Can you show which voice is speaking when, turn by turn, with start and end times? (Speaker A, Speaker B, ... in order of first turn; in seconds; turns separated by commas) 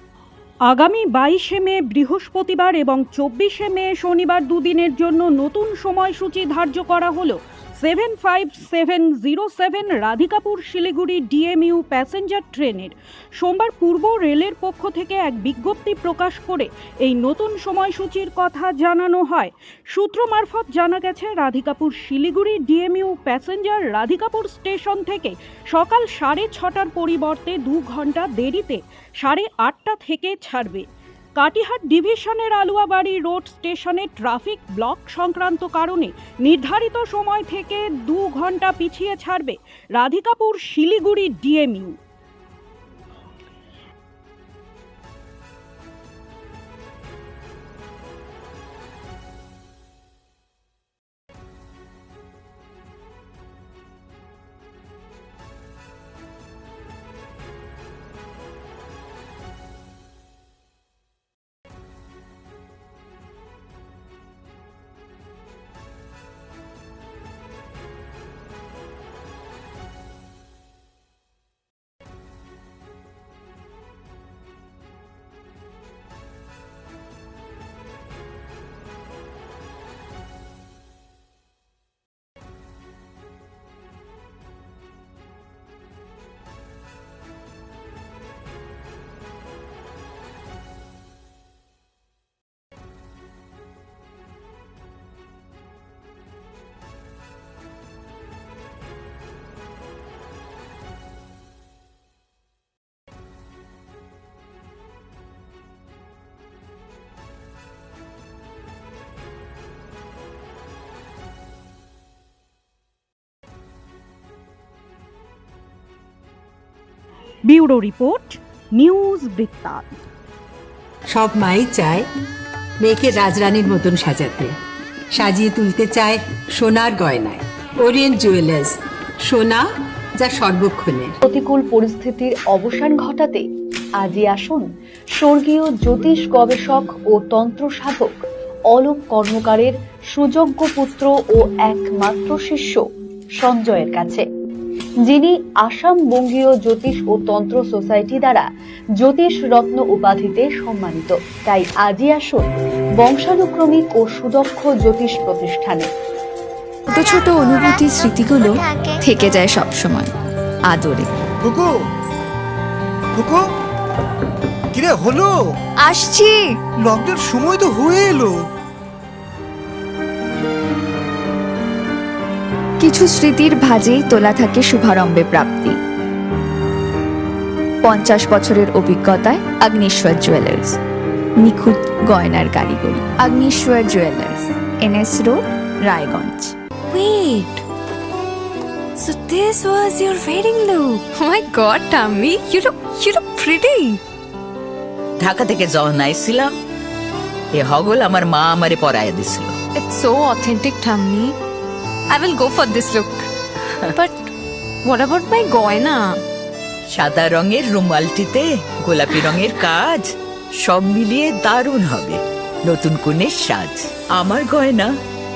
Speaker A: 0.7-30.9, Speaker A: 31.4-42.0, Speaker A: 117.4-119.9, Speaker B: 121.1-122.0, Speaker B: 122.8-124.5, Speaker B: 125.1-129.6, Speaker B: 130.2-131.1, Speaker C: 131.2-133.4, Speaker C: 134.0-138.2, Speaker C: 138.7-142.8, Speaker C: 143.4-144.2, Speaker C: 145.0-148.4, Speaker C: 149.0-155.9, Speaker D: 156.9-160.1, Speaker D: 160.7-161.1, Speaker E: 161.4-161.7, Speaker E: 163.1-163.4, Speaker E: 164.7-165.3, Speaker D: 165.8-166.4, Speaker E: 166.8-168.4, Speaker D: 172.8-175.8, Speaker D: 177.8-180.8, Speaker D: 181.4-186.5, Speaker F: 186.9-187.6, Speaker F: 189.0-194.0, Speaker G: 195.2-196.5, Speaker G: 197.5-199.5, Speaker F: 199.7-201.4, Speaker F: 202.1-203.3, Speaker F: 203.9-204.3, Speaker F: 204.8-206.2, Speaker G: 206.9-210.1, Speaker G: 210.6-214.9